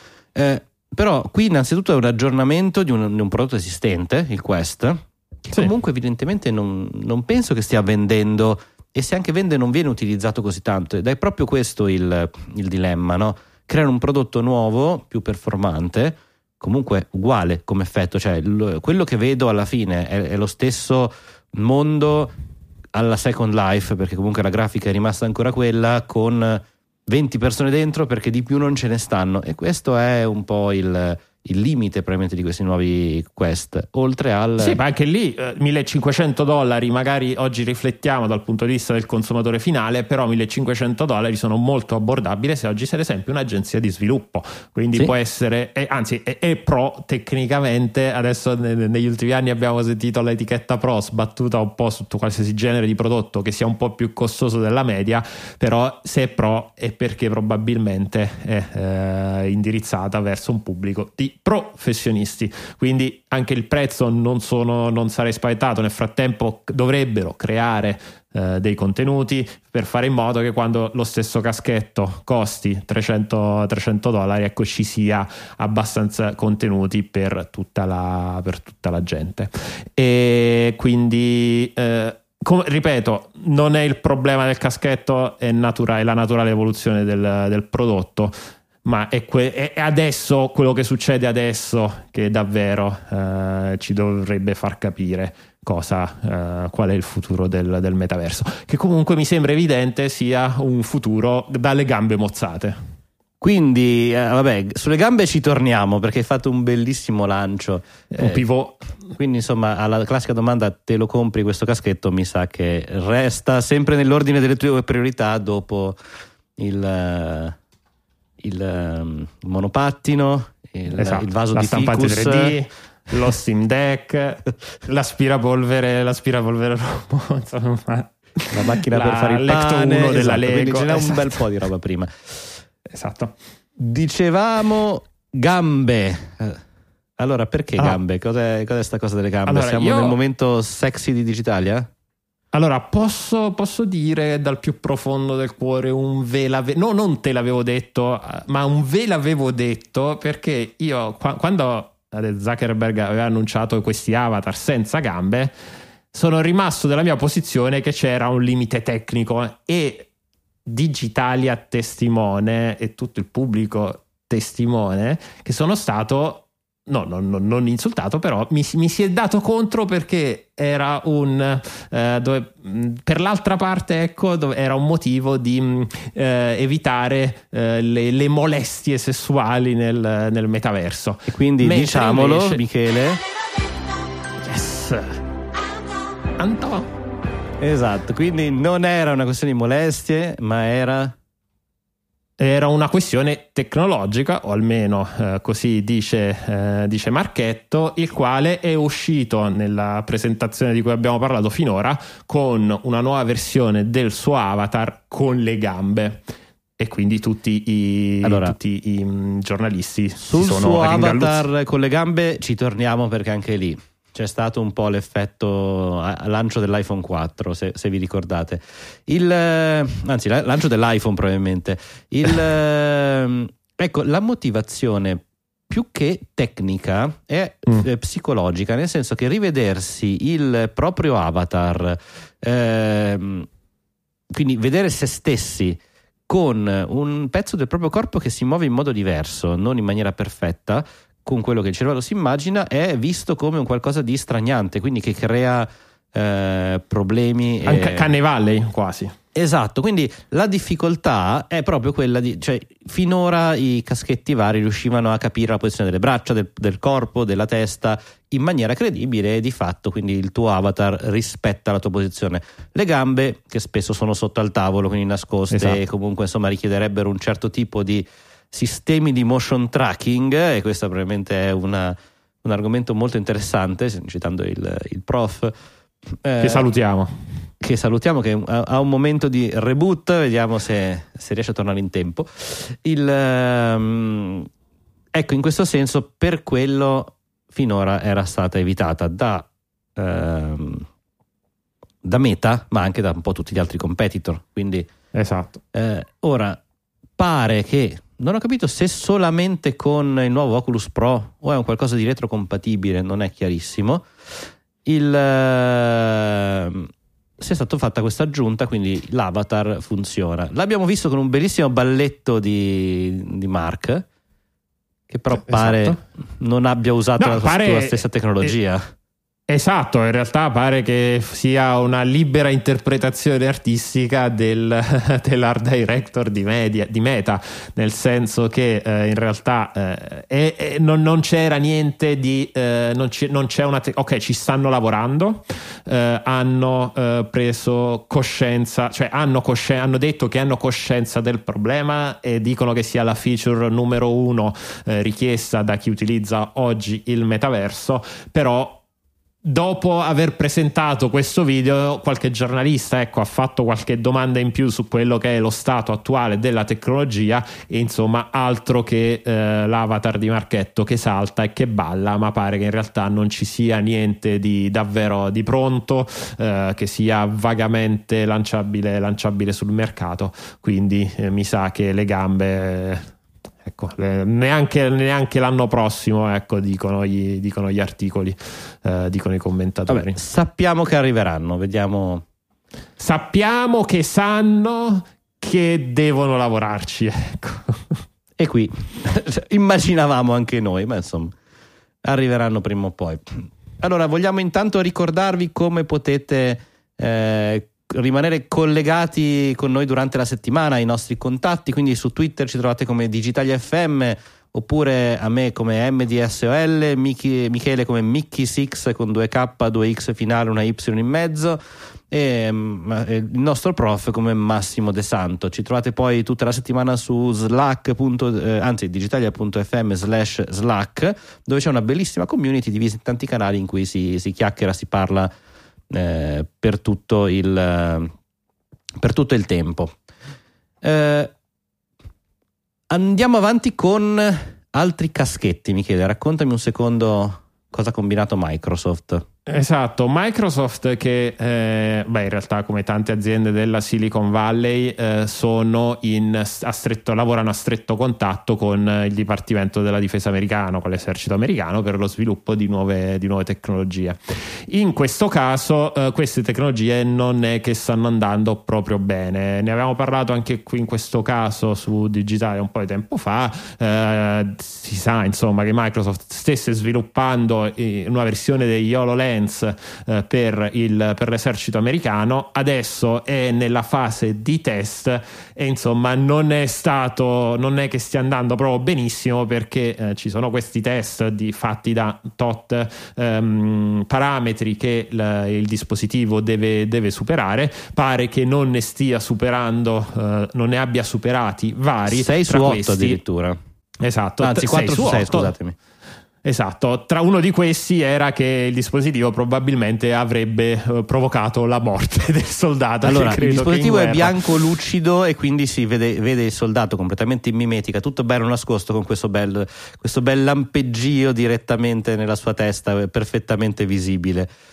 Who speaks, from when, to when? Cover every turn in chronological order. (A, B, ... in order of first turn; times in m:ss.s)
0:00.4-0:22.3 A
0:22.9-0:34.8 A
0:34.6-1:42.8 B
1:43.4-1:48.4 A
1:48.1-1:48.8 B
1:49.2-1:56.0 A
1:56.6-1:57.6 A
1:58.4-2:02.6 A
2:01.0-2:11.4 B
2:08.5-2:12.5 A
2:12.9-2:13.3 B
2:13.8-2:16.6 A
2:17.2-2:21.9 A
2:19.5-2:20.2 B
2:22.5-2:35.5 B
2:36.1-2:40.1 B
2:40.7-3:02.6 B
3:01.3-3:03.2 A
3:04.4-3:05.2 B
3:06.4-3:06.9 B
3:07.6-3:11.2 A
3:12.4-3:26.2 B
3:26.8-3:31.4 B
3:28.2-3:28.6 A
3:30.2-3:53.5 A
3:54.3-4:08.1 A
4:07.6-4:09.1 B
4:09.4-4:35.5 A
4:25.5-4:25.8 B
4:36.2-4:36.7 A
4:36.4-4:37.1 B
4:37.6-4:44.5 A
4:45.1-4:50.9 A
4:52.0-4:54.9 A
4:55.1-4:55.6 B
4:55.7-4:56.6 A
4:57.2-5:14.0 A
5:15.1-5:18.9 A
5:15.6-5:15.9 B
5:17.2-5:18.6 B
5:19.5-5:48.8 B
5:49.4-6:13.1 B
6:13.6-6:20.2 B
6:19.9-6:22.2 A
6:23.0-6:28.0 B
6:28.4-6:31.3 A
6:32.0-7:05.3 A
7:05.9-7:08.1 A
7:09.0-7:09.9 A
7:10.8-7:11.3 A
7:12.9-7:19.3 A
7:19.5-8:13.2 B
8:12.1-8:13.6 A
8:14.0-8:15.5 B
8:14.4-8:15.8 A
8:16.4-8:24.5 B
8:23.0-8:34.5 A